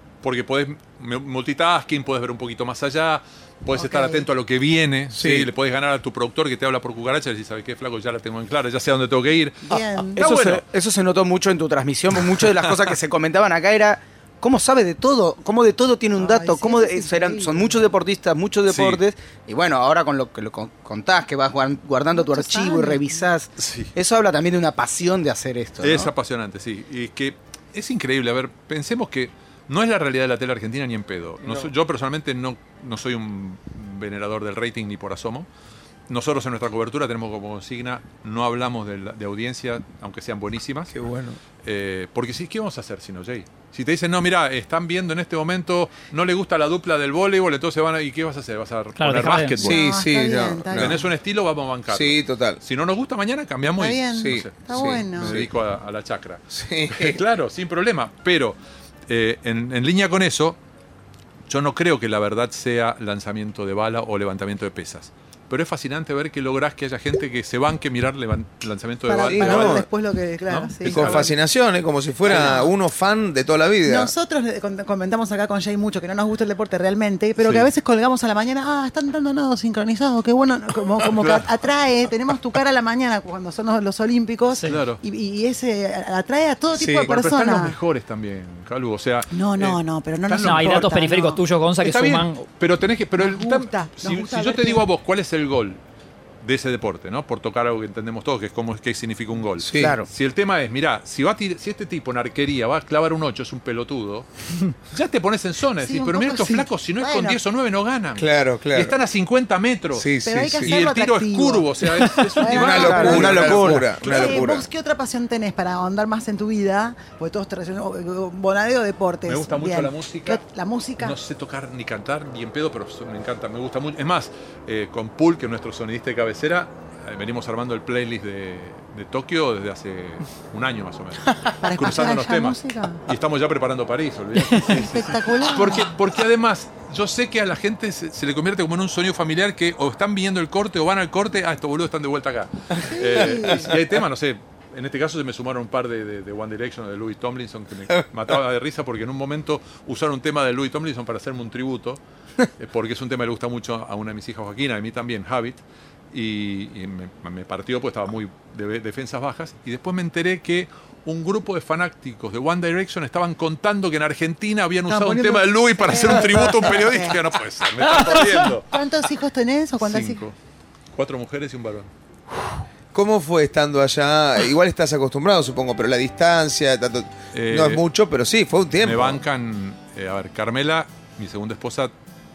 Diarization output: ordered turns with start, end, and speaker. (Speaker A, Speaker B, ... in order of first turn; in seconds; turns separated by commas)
Speaker A: 0.2-10.6, Speaker B: 3.7-4.3, Speaker C: 5.1-5.5, Speaker B: 9.6-10.2, Speaker D: 10.2-26.1, Speaker B: 16.1-17.8, Speaker A: 18.7-19.0, Speaker B: 22.1-23.3, Speaker A: 23.6-23.9, Speaker A: 25.8-35.5, Speaker C: 31.4-31.7, Speaker A: 36.1-40.9, Speaker C: 40.9-41.4, Speaker A: 41.6-49.8, Speaker E: 49.0-49.5, Speaker C: 49.6-51.0, Speaker B: 49.6-51.0, Speaker A: 50.7-60.6, Speaker C: 51.9-52.6, Speaker B: 53.8-55.4, Speaker C: 54.1-55.5, Speaker C: 56.5-57.2, Speaker A: 61.5-69.8, Speaker B: 69.1-71.3, Speaker C: 69.2-69.9, Speaker A: 70.5-71.3, Speaker C: 70.8-74.1, Speaker A: 72.2-72.6, Speaker B: 72.2-72.7, Speaker B: 73.8-87.8, Speaker A: 77.4-77.7, Speaker A: 81.2-81.5, Speaker E: 84.5-84.8, Speaker A: 84.7-85.0, Speaker C: 86.8-87.1, Speaker A: 86.8-90.9, Speaker B: 89.3-91.4, Speaker E: 90.4-92.4, Speaker A: 91.8-95.8, Speaker B: 93.2-94.8, Speaker A: 96.4-114.5, Speaker C: 99.6-100.0, Speaker D: 99.7-100.1, Speaker B: 105.8-107.4, Speaker C: 108.2-108.9, Speaker C: 109.9-110.8, Speaker B: 110.2-121.2, Speaker C: 112.4-114.7, Speaker D: 112.7-113.9, Speaker A: 119.2-120.4, Speaker A: 121.0-152.0, Speaker B: 131.6-133.0, Speaker B: 134.6-135.9, Speaker C: 142.7-143.7, Speaker B: 142.8-143.8, Speaker A: 152.6-168.8, Speaker B: 164.9-167.2, Speaker B: 167.8-170.2, Speaker A: 169.8-170.3, Speaker A: 170.9-171.9, Speaker C: 172.9-179.2, Speaker A: 177.3-177.8, Speaker A: 178.8-181.9